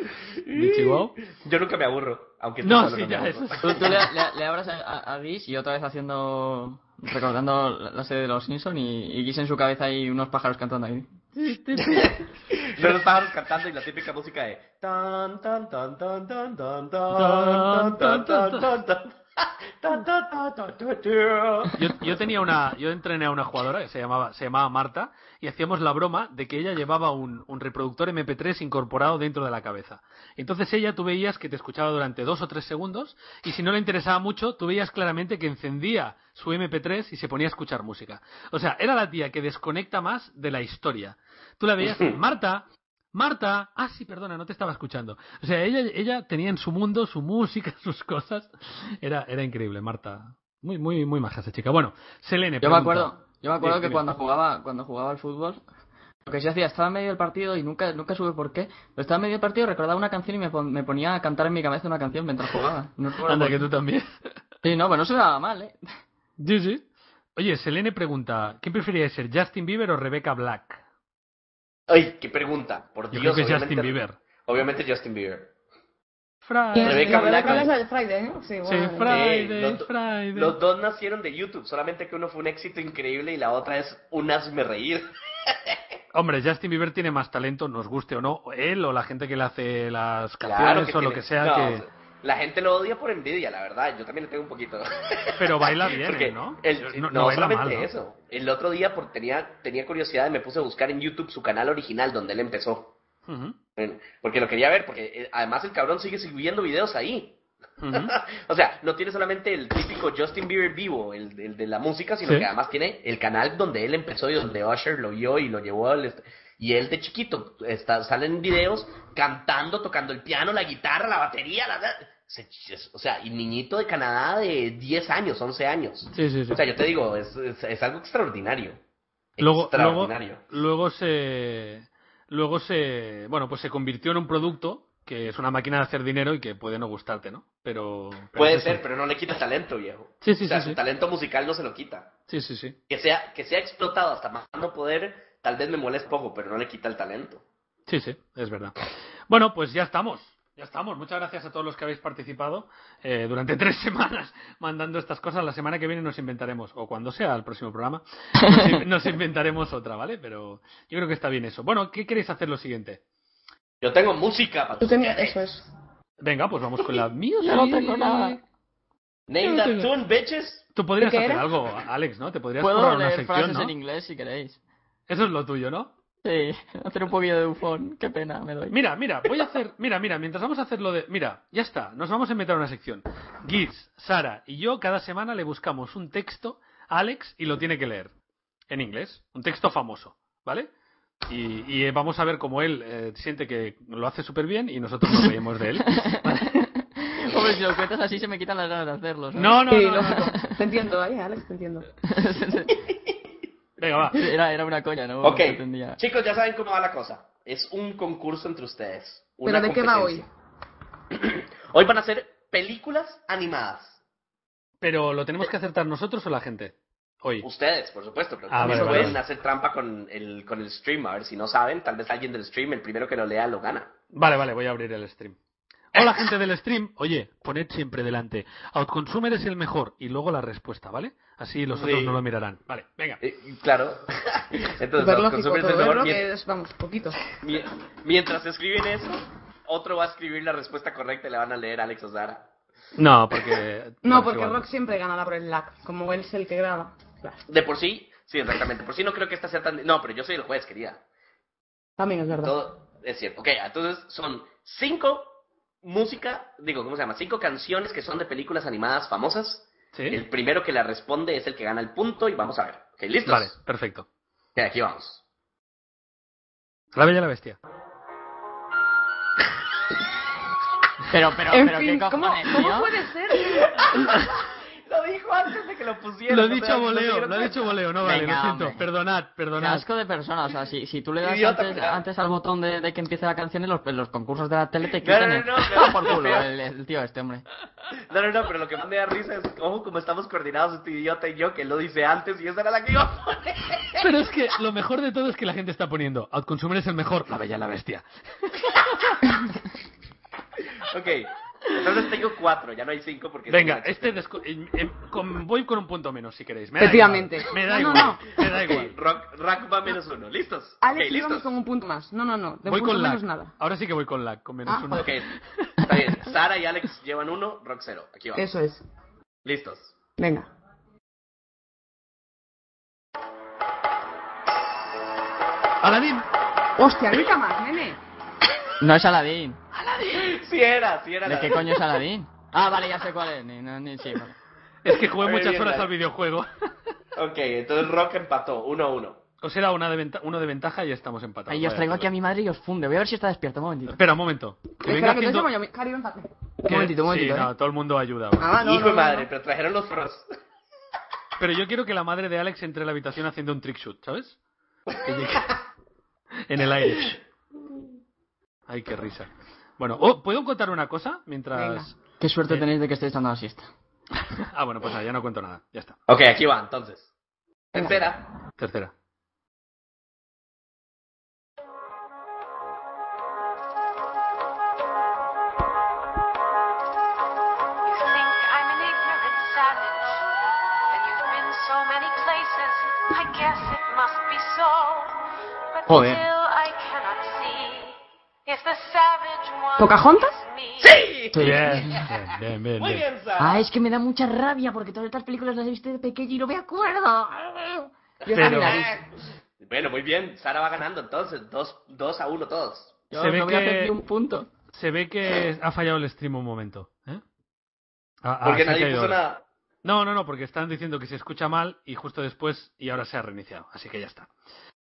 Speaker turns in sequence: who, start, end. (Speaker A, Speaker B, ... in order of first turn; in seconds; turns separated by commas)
Speaker A: 0.2-4.1, Speaker B: 0.5-1.2, Speaker B: 2.6-4.0, Speaker C: 3.6-11.1, Speaker B: 11.3-13.0, Speaker A: 11.8-21.9, Speaker B: 17.1-18.7, Speaker B: 21.8-54.0, Speaker A: 41.8-42.2, Speaker C: 52.6-55.6, Speaker C: 56.2-63.6, Speaker B: 63.2-64.1, Speaker C: 64.6-65.8, Speaker B: 66.4-66.8, Speaker B: 67.3-70.8, Speaker A: 71.9-75.5, Speaker B: 73.1-74.2, Speaker B: 76.4-77.7, Speaker D: 76.7-79.1, Speaker A: 76.8-77.7, Speaker B: 78.6-80.6, Speaker A: 79.0-85.8, Speaker B: 86.1-91.8, Speaker A: 90.4-102.9, Speaker B: 95.4-97.9, Speaker B: 103.3-103.5, Speaker A: 103.8-107.4, Speaker B: 107.8-108.1, Speaker A: 107.9-128.8, Speaker B: 126.1-126.6, Speaker A: 129.4-130.4, Speaker B: 129.4-138.8, Speaker A: 138.3-142.1, Speaker B: 140.2-140.8, Speaker B: 142.3-142.8, Speaker A: 142.9-147.4, Speaker B: 147.9-163.0, Speaker C: 158.4-158.8, Speaker A: 163.8-165.4, Speaker D: 164.8-165.7, Speaker B: 166.2-168.4, Speaker C: 167.4-168.4, Speaker A: 169.3-170.6, Speaker D: 169.4-169.8, Speaker B: 170.7-173.7, Speaker D: 171.0-171.5, Speaker C: 172.6-174.6, Speaker B: 175.1-175.9, Speaker C: 176.2-178.7, Speaker B: 178.7-188.1, Speaker B: 188.7-190.7, Speaker B: 191.3-196.6, Speaker C: 195.1-200.4, Speaker B: 199.3-200.3, Speaker D: 199.7-201.9, Speaker C: 202.1-202.7, Speaker B: 203.8-204.3, Speaker C: 204.2-206.0, Speaker A: 205.2-210.3, Speaker D: 209.4-210.2, Speaker A: 211.1-214.0, Speaker B: 214.8-217.4, Speaker A: 217.4-223.9, Speaker B: 218.5-219.2, Speaker D: 218.6-219.2, Speaker B: 224.1-225.4, Speaker B: 225.9-233.2, Speaker A: 231.7-232.2, Speaker A: 233.2-236.2, Speaker D: 235.0-237.2, Speaker A: 237.4-242.5, Speaker B: 242.9-244.6, Speaker D: 244.0-247.4, Speaker A: 247.4-251.0, Speaker D: 252.0-252.6, Speaker A: 252.3-263.5, Speaker B: 259.9-260.2, Speaker B: 263.2-264.1, Speaker A: 264.6-265.2, Speaker B: 266.9-267.6, Speaker C: 271.1-272.9, Speaker D: 271.5-273.7, Speaker A: 273.4-277.8, Speaker B: 274.1-274.3, Speaker B: 276.3-279.9, Speaker C: 278.0-278.8, Speaker C: 279.6-287.4, Speaker A: 281.2-282.0, Speaker A: 284.8-286.5, Speaker A: 287.9-294.0, Speaker B: 294.0-299.4, Speaker A: 300.8-304.2, Speaker B: 303.5-308.9, Speaker D: 306.8-308.6, Speaker A: 308.6-311.5, Speaker D: 310.8-313.5, Speaker B: 312.6-315.9, Speaker D: 314.6-315.1, Speaker A: 314.9-318.5, Speaker D: 318.4-318.8, Speaker A: 319.4-319.9, Speaker D: 320.2-320.5, Speaker B: 325.8-326.2, Speaker D: 326.8-328.0, Speaker C: 328.8-329.6, Speaker B: 329.7-330.4, Speaker A: 330.1-331.8, Speaker C: 331.2-334.3, Speaker B: 334.8-336.5, Speaker A: 335.2-335.9, Speaker A: 337.1-339.2, Speaker B: 339.4-342.1, Speaker C: 341.5-344.0, Speaker B: 343.9-345.5, Speaker D: 344.8-346.3, Speaker C: 346.6-347.5, Speaker B: 346.6-348.5, Speaker D: 348.4-349.3, Speaker A: 348.6-350.3, Speaker B: 351.4-354.4, Speaker B: 354.9-355.6, Speaker B: 356.5-357.2, Speaker B: 358.7-361.9, Speaker D: 361.5-361.9, Speaker C: 362.2-363.7, Speaker B: 364.2-365.9, Speaker A: 366.1-367.1, Speaker A: 367.7-368.2, Speaker B: 368.6-368.9, Speaker E: 377.8-380.2, Speaker E: 380.9-385.2, Speaker E: 385.7-391.0, Speaker C: 385.9-386.2, Speaker D: 389.8-390.4, Speaker A: 390.8-392.1, Speaker C: 391.3-392.0, Speaker B: 391.4-393.1, Speaker A: 392.8-393.6, Speaker C: 393.4-397.9, Speaker A: 398.2-399.0, Speaker D: 398.2-399.0, Speaker B: 398.3-398.8, Speaker A: 399.6-402.9, Speaker C: 403.1-404.5, Speaker B: 403.1-403.9, Speaker B: 404.7-407.2, Speaker B: 408.2-409.2, Speaker A: 408.4-409.4, Speaker B: 409.8-414.3